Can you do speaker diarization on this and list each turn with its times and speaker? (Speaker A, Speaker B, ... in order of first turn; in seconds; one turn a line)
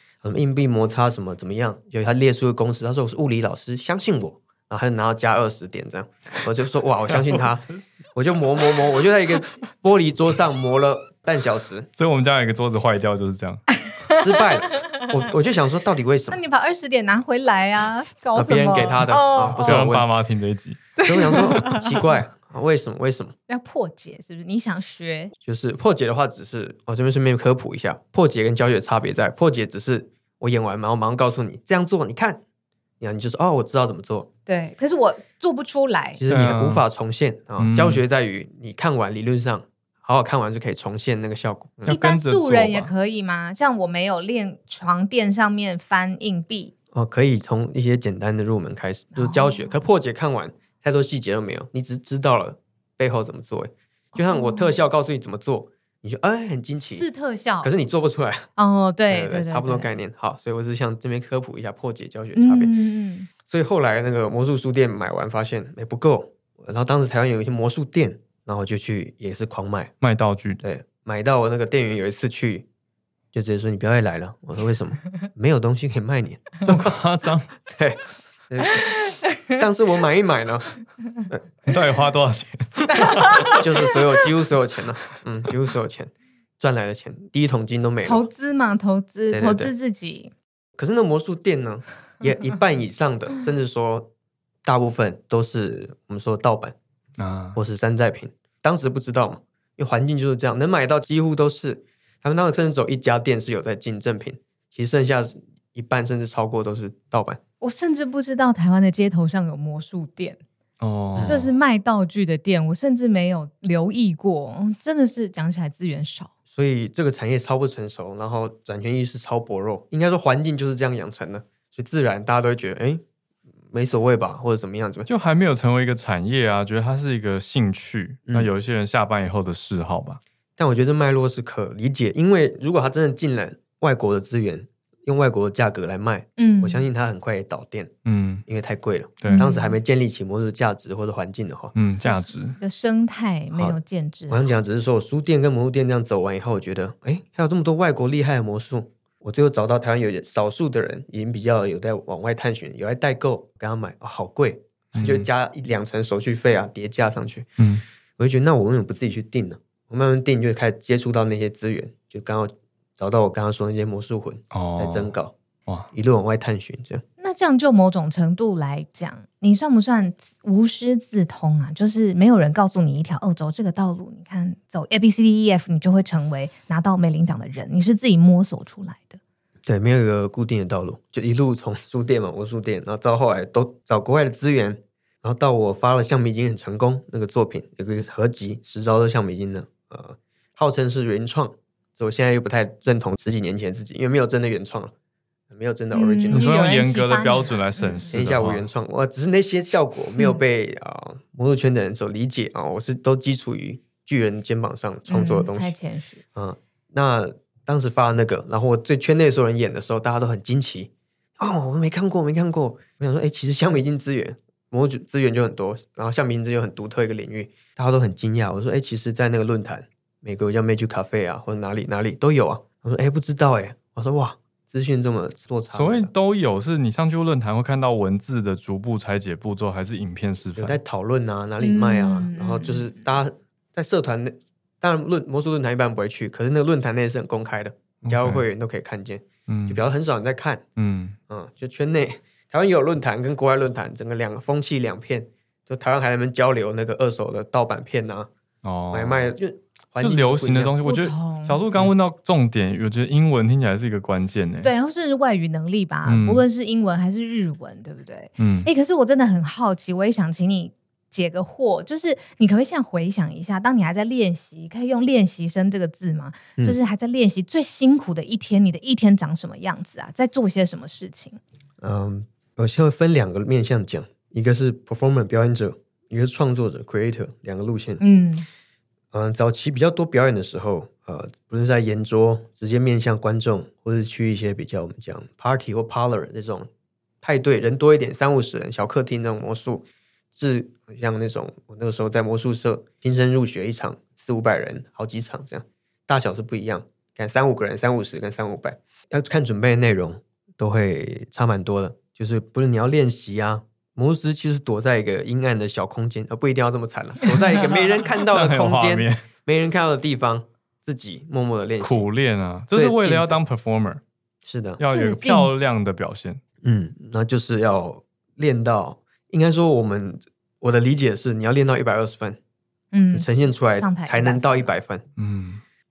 Speaker A: 0.2-11.9
Speaker B: 7.1-7.9
Speaker B: 12.0-13.7
Speaker C: 13.9-15.0
Speaker A: 14.1-16.4
Speaker C: 16.3-19.8
Speaker A: 18.4-20.1
Speaker B: 19.4-20.8
Speaker C: 21.0-21.9
Speaker A: 21.0-23.4
Speaker C: 23.5-25.3
Speaker A: 25.4-32.4
Speaker A: 33.0-34.3
Speaker C: 34.5-36.2
Speaker A: 36.2-42.0
Speaker B: 36.3-36.8
Speaker B: 37.6-38.0
Speaker B: 41.9-42.9
Speaker C: 41.9-46.7
Speaker A: 46.9-57.1
Speaker C: 49.1-49.7
Speaker C: 54.1-54.8
Speaker C: 56.9-57.7
Speaker A: 57.6-58.5
Speaker C: 58.6-59.9
Speaker A: 59.1-62.7
Speaker C: 62.4-63.3
Speaker A: 63.5-69.9
Speaker B: 70.0-70.6
Speaker A: 70.6-72.7
Speaker A: 73.3-76.9
Speaker B: 76.6-77.5
Speaker A: 77.7-78.9
Speaker C: 78.8-79.6
Speaker A: 79.5-80.7
Speaker B: 81.7-83.6
Speaker C: 82.9-83.6
Speaker A: 83.4-88.3
Speaker C: 88.0-90.3
Speaker A: 89.3-89.7
Speaker A: 90.8-94.1
Speaker A: 94.7-96.8
Speaker B: 97.2-97.6
Speaker A: 97.5-107.4
Speaker C: 107.6-110.4
Speaker B: 110.8-111.5
Speaker A: 111.2-111.5
Speaker C: 111.3-116.3
Speaker A: 116.5-123.0
Speaker A: 123.7-125.1
Speaker B: 125.1-130.2
Speaker A: 130.6-137.9
Speaker C: 136.4-136.9
Speaker B: 138.1-138.4
Speaker A: 138.5-141.8
Speaker B: 139.2-139.5
Speaker C: 139.3-139.8
Speaker B: 141.8-142.6
Speaker C: 142.0-144.5
Speaker A: 144.3-157.6
Speaker B: 154.9-155.3
Speaker A: 158.2-165.3
Speaker B: 164.5-165.1
Speaker A: 165.9-167.0
Speaker C: 167.2-179.2
Speaker A: 179.7-194.9
Speaker A: 195.5-196.5
Speaker C: 195.9-198.1
Speaker B: 196.3-198.7
Speaker A: 198.1-205.7
Speaker C: 205.1-206.2
Speaker A: 206.3-226.1
Speaker B: 225.7-230.8
Speaker A: 230.6-240.6
Speaker C: 231.6-233.0
Speaker B: 238.0-238.4
Speaker B: 239.5-239.8
Speaker B: 240.8-241.2
Speaker A: 241.3-248.3
Speaker B: 248.6-249.3
Speaker A: 248.9-250.8
Speaker B: 250.0-254.7
Speaker C: 250.8-251.6
Speaker C: 254.6-271.4
Speaker B: 256.1-256.5
Speaker B: 258.4-258.7
Speaker A: 271.8-278.0
Speaker C: 278.0-278.5
Speaker A: 279.1-286.7
Speaker A: 287.2-312.1
Speaker B: 308.1-309.2
Speaker B: 311.8-314.0
Speaker A: 312.8-313.4
Speaker A: 314.4-314.8
Speaker B: 314.8-316.4
Speaker C: 314.9-315.5
Speaker A: 316.6-322.4
Speaker C: 322.9-324.7
Speaker A: 323.1-325.1
Speaker B: 325.2-325.6